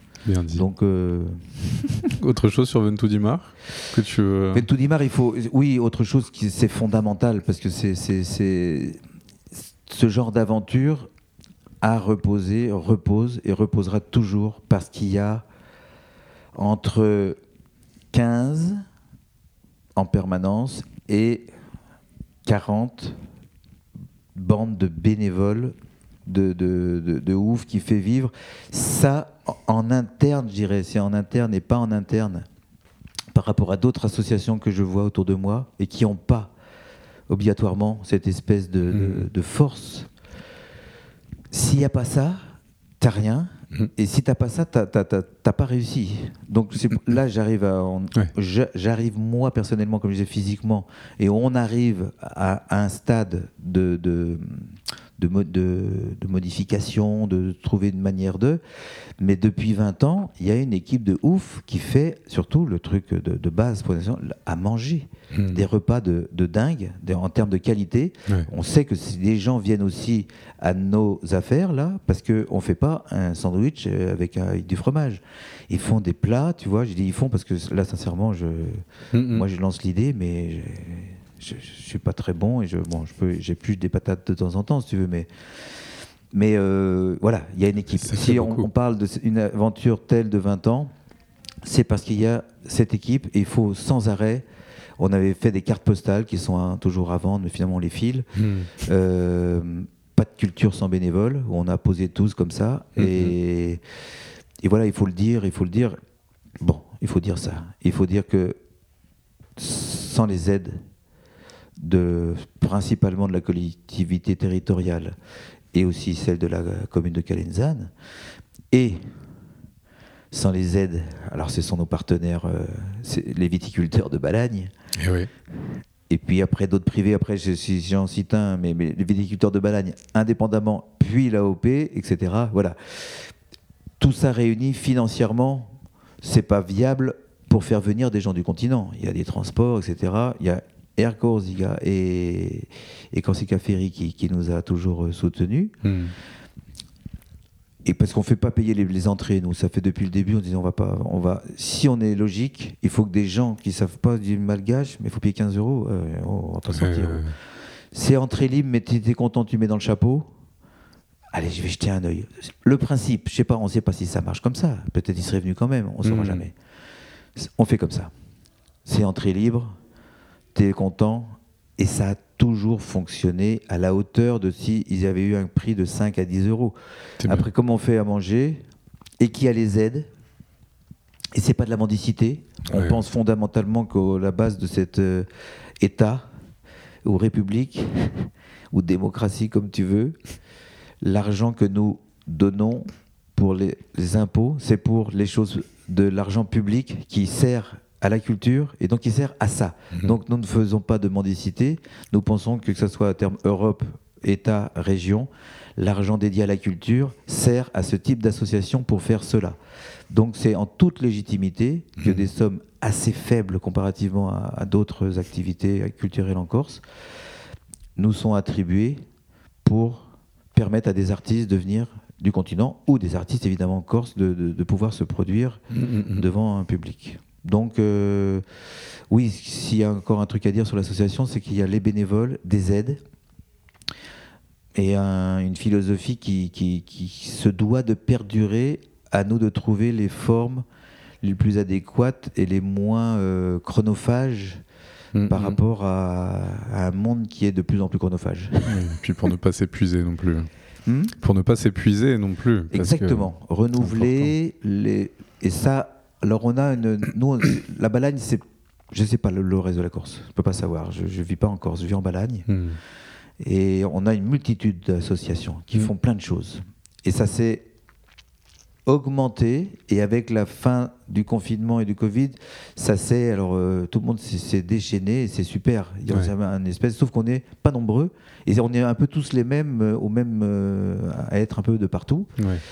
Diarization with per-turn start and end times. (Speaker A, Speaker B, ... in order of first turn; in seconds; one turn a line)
Speaker A: 0.2-0.7
Speaker B: 0.5-2.1
Speaker A: 2.2-4.7
Speaker B: 4.5-9.0
Speaker B: 9.9-11.1
Speaker B: 11.8-15.4
Speaker B: 16.6-17.4
Speaker B: 18.1-18.8
Speaker B: 20.0-21.5
Speaker B: 22.4-23.2
Speaker B: 24.4-25.8
Speaker B: 26.3-32.5
Speaker B: 33.3-36.5
Speaker B: 37.3-40.1
Speaker A: 38.9-39.3
Speaker B: 41.5-42.4
Speaker B: 43.0-58.6
Speaker B: 59.2-85.3
Speaker A: 65.3-65.7
Speaker A: 79.1-79.5
Speaker B: 86.3-90.9
Speaker A: 88.0-88.7
Speaker B: 91.6-94.5
Speaker B: 95.0-98.3
Speaker A: 98.3-98.7
Speaker B: 98.8-103.8
Speaker A: 103.0-103.3
Speaker B: 104.6-106.0
Speaker B: 106.6-108.6
Speaker B: 109.6-110.8
Speaker B: 111.8-115.2
Speaker B: 115.7-117.9
Speaker B: 118.7-119.0
Speaker B: 120.3-124.7
Speaker A: 125.0-125.3
Speaker B: 126.1-133.3
Speaker B: 134.0-145.7
Speaker A: 145.8-146.1
Speaker B: 147.8-157.2
Speaker A: 156.7-157.3
Speaker B: 157.9-160.3
Speaker B: 161.3-166.6
Speaker A: 166.0-166.4
Speaker B: 167.4-168.1
Speaker B: 168.9-169.8
Speaker B: 170.5-178.6
Speaker A: 177.2-177.5
Speaker B: 179.2-180.1
Speaker B: 181.3-185.3
Speaker A: 182.7-183.0
Speaker B: 185.8-186.3
Speaker B: 187.1-190.2
Speaker B: 191.0-209.6
Speaker B: 210.1-216.8
Speaker B: 218.0-219.0
Speaker B: 219.6-228.4
Speaker A: 225.7-226.2
Speaker B: 229.1-233.0
Speaker B: 234.8-240.6
Speaker B: 241.2-244.6
Speaker A: 245.1-245.6
Speaker B: 245.3-248.9
Speaker A: 248.7-250.5
Speaker B: 250.9-251.2
Speaker A: 251.2-254.3
Speaker B: 252.7-262.5
Speaker A: 262.5-262.8
Speaker B: 263.4-267.7
Speaker B: 268.9-282.3